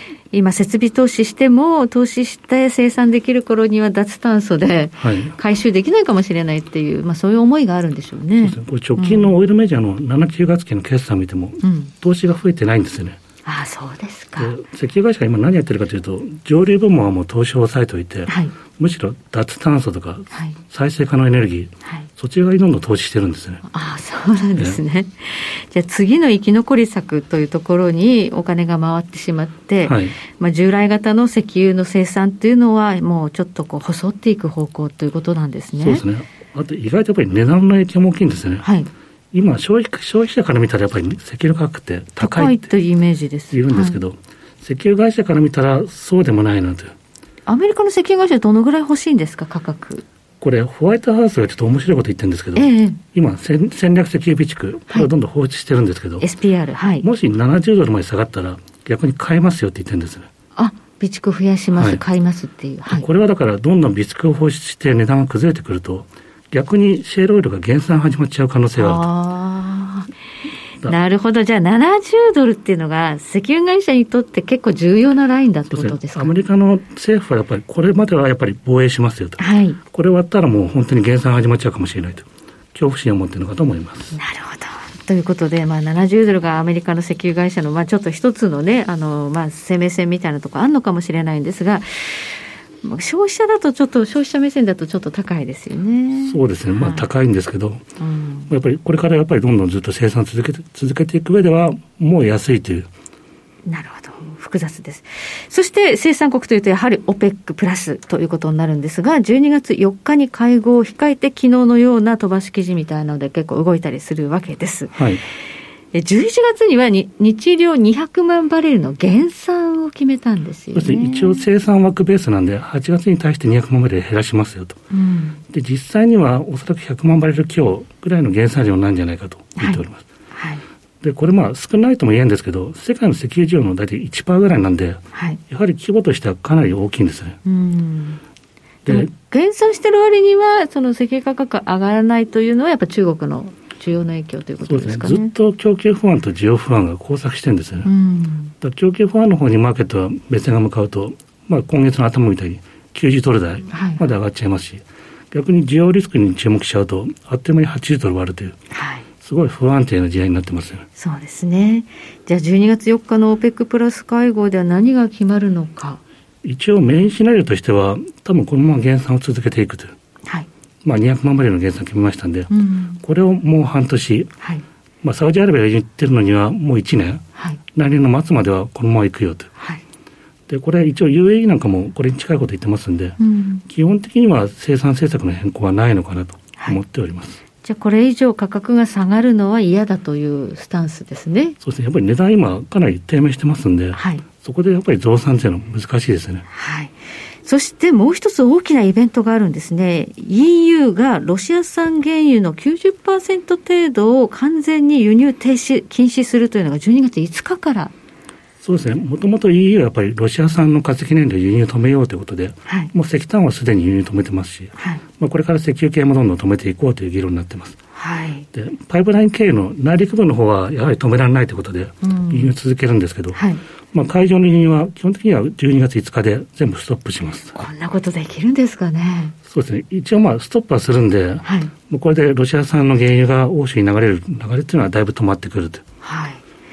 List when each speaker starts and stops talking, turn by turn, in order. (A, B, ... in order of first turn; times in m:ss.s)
0:00.3-0:09.3 A
0:05.0-0:05.3 B
0:08.4-0:13.2 B
0:11.6-0:11.9 A
0:13.4-0:14.5 A
0:14.4-0:23.6 B
0:18.3-0:18.6 A
0:20.3-0:20.6 A
0:23.7-0:36.0 A
0:29.8-0:30.2 B
0:35.8-0:38.7 B
0:38.6-0:38.9 A
0:39.3-0:42.7 B
0:42.2-0:44.0 A
0:43.5-0:46.9 B
0:47.5-0:50.0 A
0:50.4-0:56.3 B
0:52.6-0:53.0 A
0:56.2-0:57.1 A
0:57.0-1:00.3 B
1:00.6-1:03.1 A
1:01.7-1:02.0 B
1:02.9-1:09.1 B
1:08.8-1:10.1 A
1:10.8-1:16.3 A
1:15.7-1:24.2 B
1:19.4-1:19.8 A
1:24.1-1:32.3 A
1:32.8-1:37.1 A
1:36.2-1:37.8 B
1:38.0-1:38.5 A
1:38.5-1:42.9 B
1:43.7-1:55.0 A
1:54.9-1:55.2 B
1:55.9-2:01.4 A
2:00.7-2:04.8 B
2:04.9-2:05.4 A
2:05.5-2:10.0 B
2:09.6-2:10.6 A
2:11.0-2:17.4 B
2:15.1-2:15.4 A
2:17.4-2:18.2 A
2:18.9-2:25.3 A
2:24.6-2:27.9 B
2:27.8-2:28.5 A
2:28.6-2:38.6 B
2:33.7-2:34.1 A
2:38.7-2:39.1 A
2:39.2-2:40.8 B
2:41.0-2:46.0 A
2:46.4-2:49.9 B
2:50.8-2:54.3 B
2:52.5-2:53.0 A
2:54.4-2:54.6 A
2:55.0-2:57.2 B
2:57.7-2:59.5 B
3:00.5-3:03.2 B
3:03.2-3:03.6 A
3:03.7-3:07.4 B
3:07.6-3:11.6 A
3:11.6-3:16.4 B
3:13.9-3:14.2 A
3:16.5-3:27.9 A
3:28.6-3:37.8 B
3:32.7-3:32.9 A
3:34.8-3:35.0 A
3:37.9-3:38.5 A
3:38.5-3:47.6 B
3:42.0-3:42.5 A
3:43.3-3:43.6 A
3:47.5-3:49.4 A
3:49.5-3:55.8 B
3:51.4-3:51.7 A
3:56.0-3:56.4 A